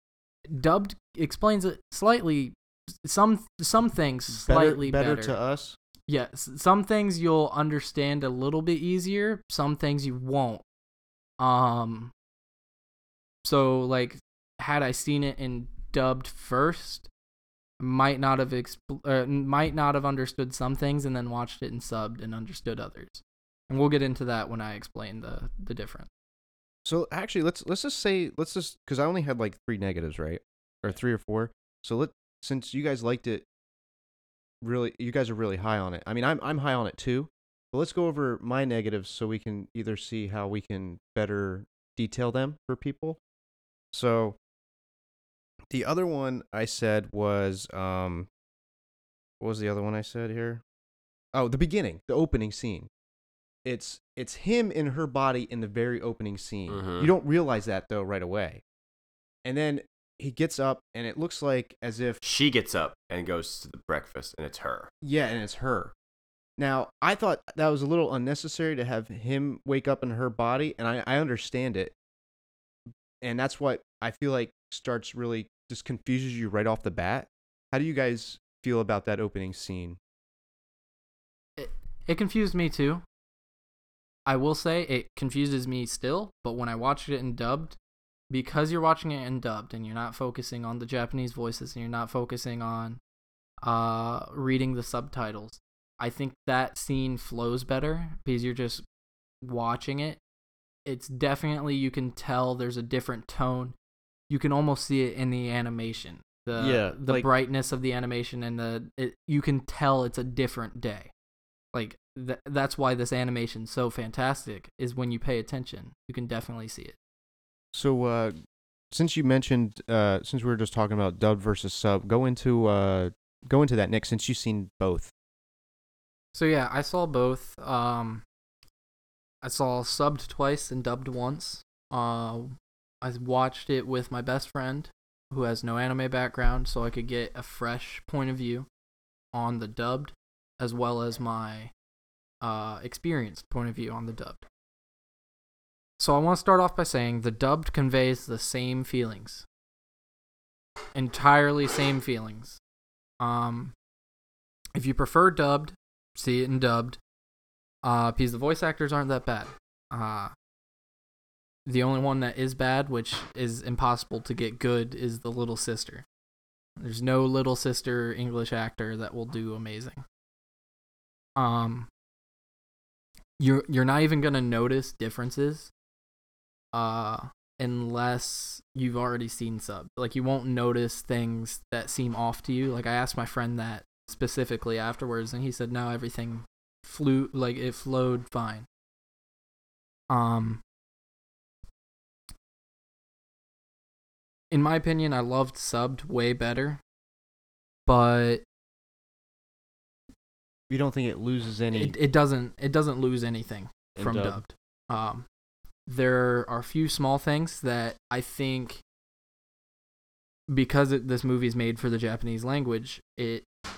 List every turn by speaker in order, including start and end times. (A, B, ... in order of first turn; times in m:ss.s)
0:00.5-0:05.4 A
0:04.3-0:05.8 B
0:06.1-0:10.6 A
0:11.4-0:12.1 A
0:13.4-0:17.1 A
0:17.8-0:26.1 A
0:26.8-0:33.4 B
0:34.6-0:43.2 B
0:43.9-0:44.4 B
0:45.7-0:48.3 B
0:49.4-0:50.6 B
0:51.3-0:52.9 B
0:53.6-0:58.6 B
0:56.7-0:57.1 C
0:59.4-1:02.2 B
1:02.2-1:04.9 C
1:05.0-1:05.9 B
1:06.6-1:11.9 B
1:13.2-1:20.0 B
1:21.6-1:23.0 A
1:24.3-1:27.8 A
1:28.3-1:33.0 A
1:33.6-1:38.8 A
1:39.4-1:40.2 A
1:40.9-1:43.8 A
1:44.3-1:51.1 A
1:46.6-1:47.3 B
1:51.7-1:57.0 A
1:57.7-1:58.4 B
1:58.9-2:05.1 B
2:06.3-2:08.2 A
2:09.4-2:18.7 A
2:19.3-2:21.7 A
2:22.4-2:24.5 A
2:26.0-2:29.4 A
2:31.0-2:32.6 A
2:33.2-2:33.7 A
2:34.8-2:37.0 A
2:37.8-2:40.3 A
2:41.7-2:46.0 A
2:46.8-2:50.0 A
2:51.4-2:51.9 A
2:53.4-2:55.7 A
2:56.7-3:08.7 A
3:10.1-3:10.6 A
3:14.5-3:16.8 A
3:17.9-3:18.4 A
3:20.7-3:22.0 B
3:21.7-3:25.3 A
3:24.0-3:24.4 B
3:25.9-3:28.8 A
3:30.5-3:33.5 A